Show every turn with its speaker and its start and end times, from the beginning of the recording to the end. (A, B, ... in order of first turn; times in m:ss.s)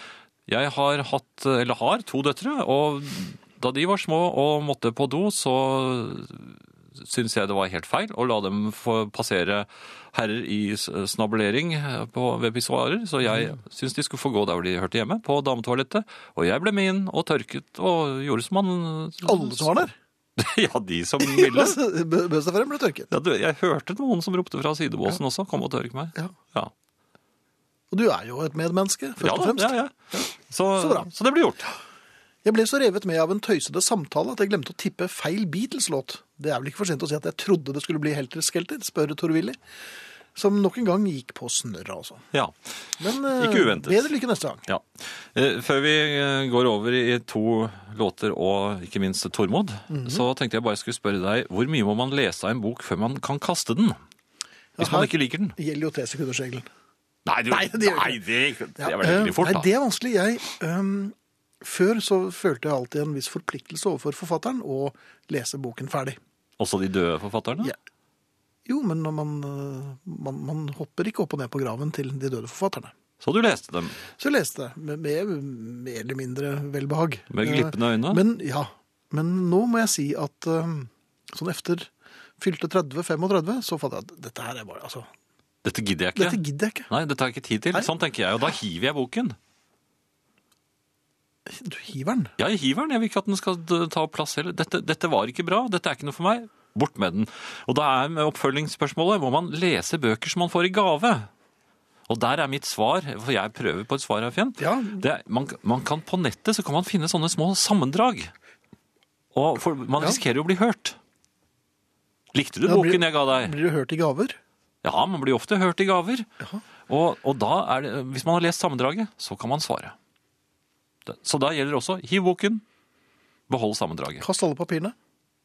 0:00.5-0:21.8 A
0:19.2-0:19.9 B
0:21.2-0:23.1 B
0:23.1-0:26.7 A
0:27.9-0:30.2 B
0:29.2-0:31.7 A
0:30.8-0:31.1 B
0:32.4-0:39.6 B
0:40.4-0:42.3 B
0:43.0-0:44.6 B
0:43.1-0:44.1 A
0:44.7-0:54.0 A
0:49.9-0:50.2 B
0:54.8-0:56.7 B
0:54.8-0:55.6 A
0:57.3-0:59.7 A
0:57.5-0:58.2 B
0:58.8-1:06.2 B
1:06.6-1:07.7 A
1:08.7-1:12.9 B
1:13.2-1:14.0 A
1:14.2-1:25.1 B
1:17.3-1:18.2 A
1:25.6-1:29.4 A
1:26.2-1:26.9 B
1:31.5-1:32.3 B
1:32.4-1:41.3 A
1:42.1-1:48.3 A
1:44.6-1:45.0 B
1:49.3-1:51.0 A
1:52.3-1:53.5 A
1:52.6-1:54.4 B
1:54.8-1:56.3 A
1:56.9-2:00.0 A
2:01.1-2:02.6 A
2:03.5-2:04.3 A
2:04.2-2:05.0 B